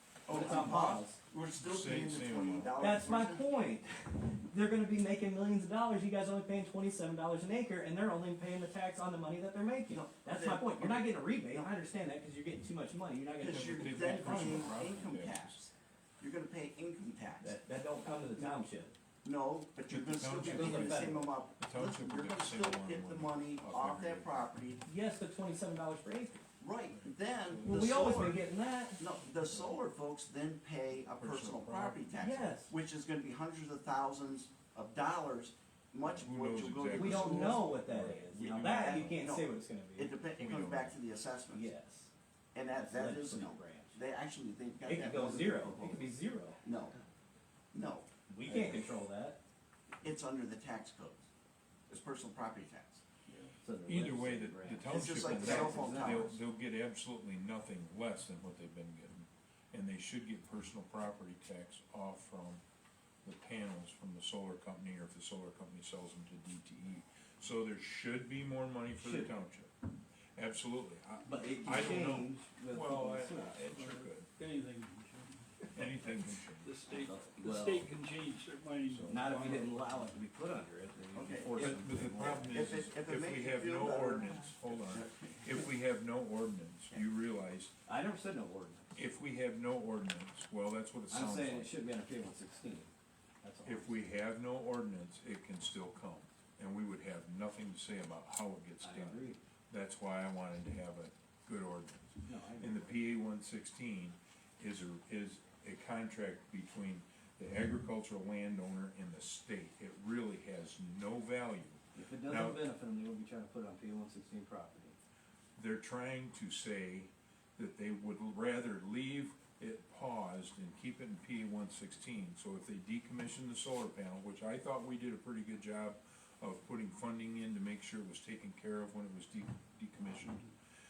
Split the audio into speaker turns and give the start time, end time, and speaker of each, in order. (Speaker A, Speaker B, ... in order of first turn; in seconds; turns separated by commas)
Speaker A: 0.3-3.5, Speaker B: 0.3-1.2, Speaker C: 1.6-3.0, Speaker B: 2.8-14.8, Speaker A: 9.9-11.1, Speaker A: 13.4-17.6, Speaker C: 13.5-15.6, Speaker B: 17.4-18.9, Speaker A: 19.2-24.8, Speaker C: 19.9-24.5, Speaker B: 20.4-21.3, Speaker B: 24.9-26.5, Speaker A: 26.6-28.4, Speaker C: 27.2-27.8, Speaker B: 27.6-29.0, Speaker A: 29.0-37.7, Speaker C: 29.5-29.8, Speaker C: 31.1-32.2, Speaker B: 32.2-32.7, Speaker C: 36.0-39.2, Speaker B: 36.9-40.1, Speaker A: 38.4-41.7, Speaker C: 40.4-41.0, Speaker B: 41.5-42.1, Speaker A: 42.5-46.1, Speaker B: 42.7-44.0, Speaker B: 44.9-46.6, Speaker A: 46.6-47.0, Speaker A: 47.7-49.0, Speaker B: 48.3-49.4, Speaker A: 50.0-51.3, Speaker A: 51.9-53.0, Speaker B: 53.6-56.3, Speaker C: 53.8-62.6, Speaker A: 54.9-56.4, Speaker C: 63.2-69.7, Speaker B: 69.0-69.3, Speaker C: 70.4-74.3, Speaker B: 71.2-73.7, Speaker D: 73.7-79.8, Speaker C: 75.7-76.8, Speaker B: 76.9-77.9, Speaker C: 78.9-79.2, Speaker B: 79.1-82.7, Speaker A: 81.1-85.7, Speaker C: 81.5-87.7, Speaker B: 87.9-89.0, Speaker C: 89.0-91.7, Speaker B: 91.1-92.9, Speaker B: 93.4-94.0, Speaker C: 93.7-112.6, Speaker B: 98.8-99.4, Speaker B: 102.2-103.0, Speaker B: 112.0-115.0, Speaker C: 115.6-130.5